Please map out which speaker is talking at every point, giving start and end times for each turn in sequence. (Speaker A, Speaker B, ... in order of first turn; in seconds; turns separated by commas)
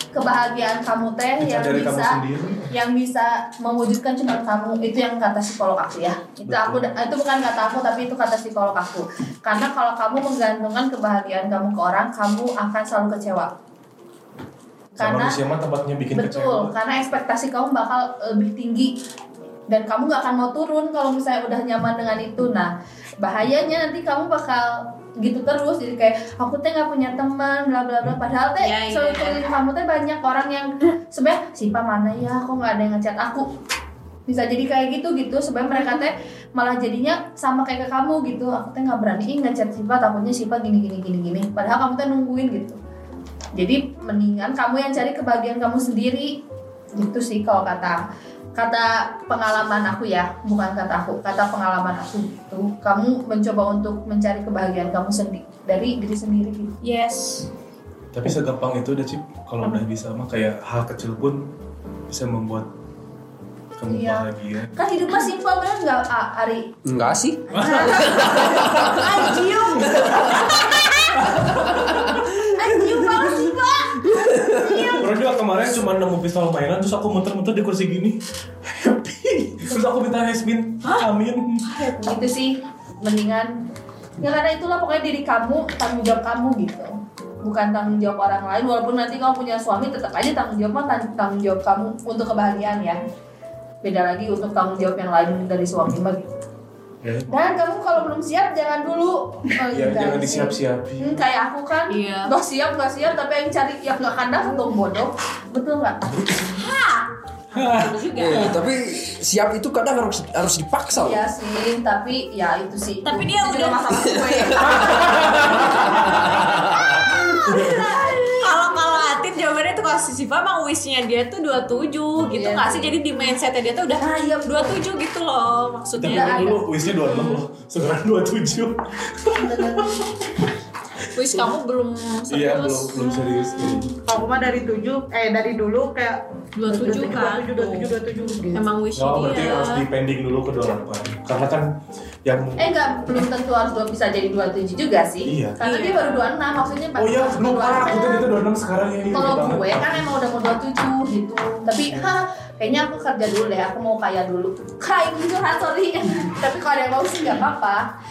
Speaker A: 0.1-13.5, Speaker B: 1.4-2.7, Speaker B: 6.5-6.9, Speaker B: 15.0-16.7, Speaker A: 15.0-15.4, Speaker A: 16.1-18.9, Speaker A: 19.7-33.5, Speaker C: 28.6-29.4, Speaker A: 34.3-42.8, Speaker A: 43.6-46.4, Speaker A: 47.0-48.0, Speaker A: 48.6-56.8, Speaker C: 56.8-57.5, Speaker B: 58.1-61.5, Speaker B: 62.1-62.7, Speaker B: 63.8-64.7, Speaker A: 63.9-66.8, Speaker D: 66.8-70.4, Speaker B: 67.5-70.1, Speaker A: 67.6-69.4, Speaker C: 68.7-71.4, Speaker B: 71.2-72.0, Speaker D: 71.6-73.5, Speaker C: 72.6-75.0, Speaker A: 72.7-73.5, Speaker E: 72.8-73.5, Speaker D: 74.1-74.9, Speaker B: 75.0-81.8, Speaker A: 81.8-83.5, Speaker A: 84.2-93.0, Speaker A: 93.8-96.3, Speaker B: 97.0-97.3, Speaker A: 97.3-106.6, Speaker B: 99.7-101.2, Speaker C: 101.9-102.3, Speaker C: 106.6-108.6, Speaker B: 107.5-108.5, Speaker D: 108.2-111.2, Speaker A: 110.9-116.4, Speaker C: 113.0-127.1, Speaker D: 114.1-117.1, Speaker B: 114.7-116.4, Speaker A: 117.0-118.9, Speaker B: 117.5-117.9, Speaker A: 122.3-123.0, Speaker A: 124.0-124.8, Speaker B: 126.0-130.4, Speaker A: 126.0-126.6, Speaker A: 129.4-130.1, Speaker C: 131.1-133.4, Speaker B: 132.3-133.9, Speaker E: 134.1-138.6, Speaker C: 136.6-137.9, Speaker C: 138.5-139.9, Speaker B: 138.9-141.7, Speaker B: 142.2-142.8, Speaker A: 142.6-148.3, Speaker B: 145.3-145.6, Speaker C: 145.6-146.3, Speaker B: 147.0-150.1, Speaker A: 149.1-157.9